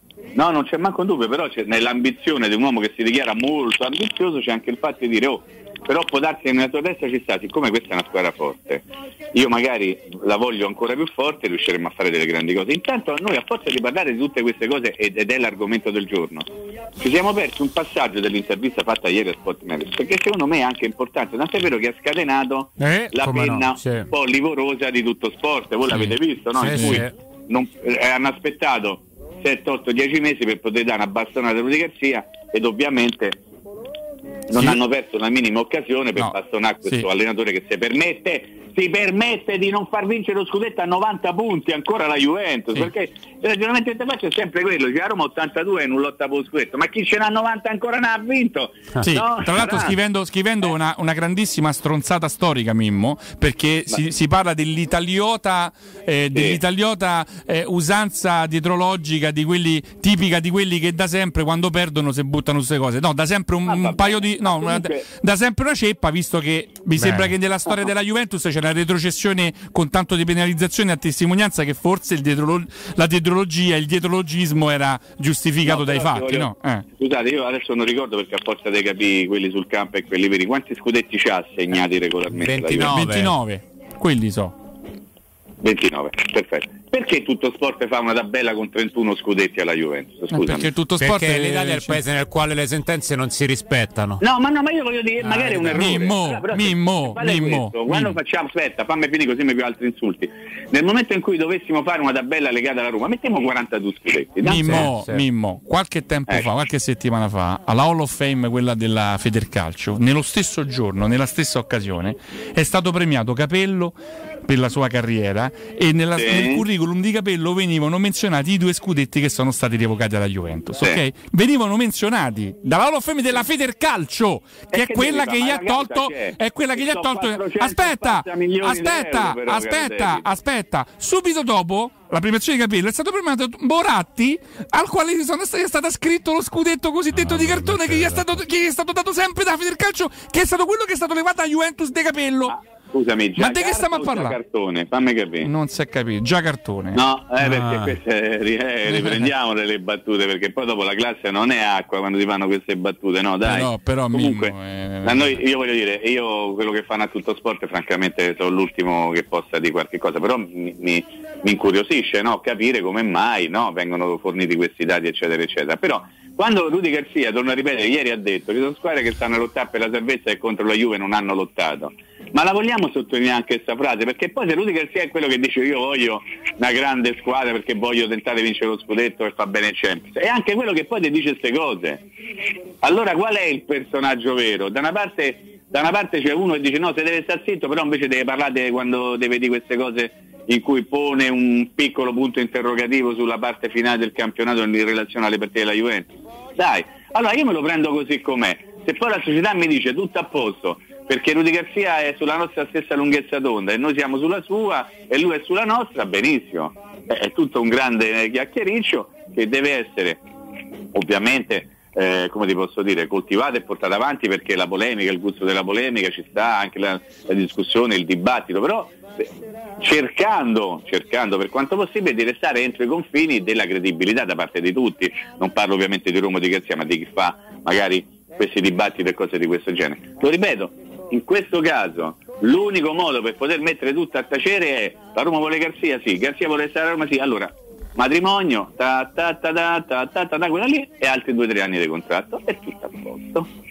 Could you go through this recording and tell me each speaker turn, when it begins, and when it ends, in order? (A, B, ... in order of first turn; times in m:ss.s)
0:00.4-0:33.4 A
0:22.8-0:24.1 B
0:25.9-0:27.1 B
0:26.7-0:27.0 C
0:34.5-0:50.0 A
0:34.6-0:34.8 C
0:36.2-0:37.1 C
0:49.0-1:16.8 C
0:56.3-0:56.6 A
1:03.7-1:05.1 A
1:15.7-1:23.0 A
1:22.3-1:23.3 B
1:22.9-1:24.6 C
1:25.6-1:30.7 A
1:30.3-1:32.0 C
1:31.0-1:34.2 B
1:34.2-1:44.9 A
1:35.2-1:38.2 C
1:44.4-2:22.6 C
1:44.6-1:45.2 B
1:56.2-1:56.6 A
2:04.7-2:10.2 A
2:17.2-2:18.2 B
2:22.5-2:25.5 A
2:23.4-2:24.4 C
2:25.4-2:27.0 C
2:26.9-3:02.0 A
2:27.4-2:28.0 B
2:28.9-2:29.3 C
2:33.4-2:35.4 C
3:02.8-3:30.2 A
3:30.9-3:39.3 A
3:39.8-4:03.5 A